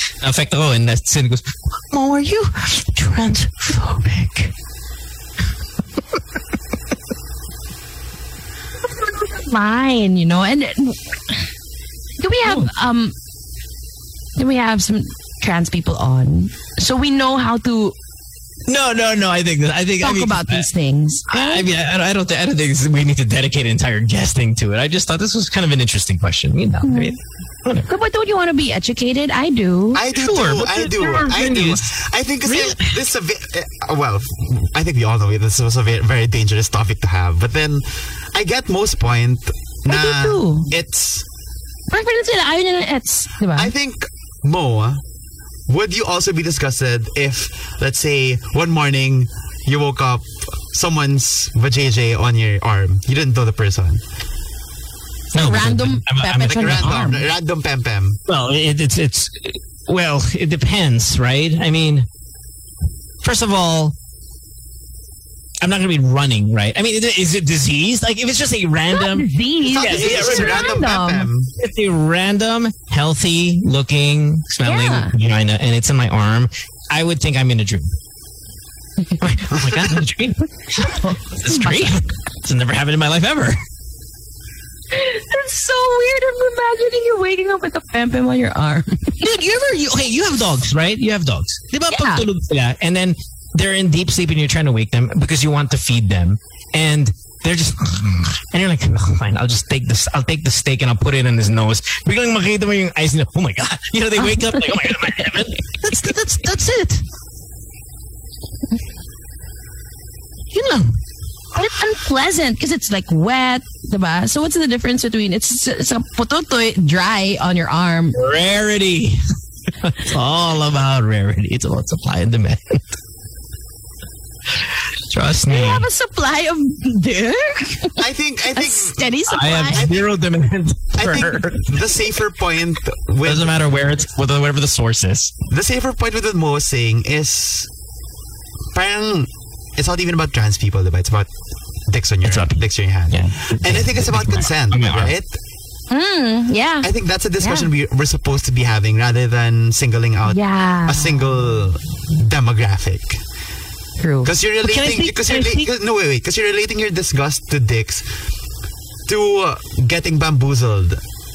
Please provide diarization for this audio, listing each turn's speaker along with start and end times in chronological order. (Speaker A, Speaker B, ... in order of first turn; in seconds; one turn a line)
Speaker A: 0.2-4.5
Speaker B: 8.8-11.4
Speaker B: 12.2-13.1
Speaker A: 12.4-12.7
Speaker B: 14.4-17.9
Speaker A: 18.7-20.7
Speaker B: 20.0-21.7
Speaker A: 21.3-27.9
Speaker B: 26.8-27.2
Speaker B: 27.9-30.0
Speaker C: 29.9-41.2
Speaker A: 30.1-31.9
Speaker A: 32.5-33.0
Speaker B: 39.9-40.7
Speaker B: 41.9-43.7
Speaker C: 43.5-45.0
Speaker C: 45.7-54.0
Speaker A: 55.3-57.1
Speaker B: 55.4-57.3
Speaker C: 56.5-58.2
Speaker A: 58.3-62.1
Speaker A: 63.2-64.0
Speaker A: 65.6-70.8
Speaker B: 68.9-71.3
Speaker C: 69.6-71.5
Speaker A: 71.6-77.9
Speaker B: 74.7-75.1
Speaker A: 79.2-83.6
Speaker B: 80.8-82.0
Speaker B: 84.9-89.2
Speaker A: 89.2-107.0
Speaker B: 91.9-92.2
Speaker A: 110.5-111.0
Speaker B: 111.5-118.2
Speaker A: 118.2-119.2
Speaker A: 119.8-123.0
Speaker A: 125.1-125.9
Speaker B: 125.5-128.0
Speaker C: 128.0-129.1
Speaker B: 128.5-129.8
Speaker A: 129.3-131.9
Speaker C: 129.7-130.1
Speaker C: 130.9-133.6
Speaker A: 133.2-135.3
Speaker C: 135.5-137.7
Speaker C: 138.7-141.3
Speaker C: 141.9-145.4
Speaker A: 142.2-142.6
Speaker A: 143.1-145.1
Speaker B: 145.9-146.9
Speaker C: 146.8-153.2
Speaker B: 147.4-147.7
Speaker B: 150.3-151.3
Speaker B: 154.0-154.3
Speaker C: 154.2-158.1
Speaker A: 154.6-155.7
Speaker C: 159.1-161.0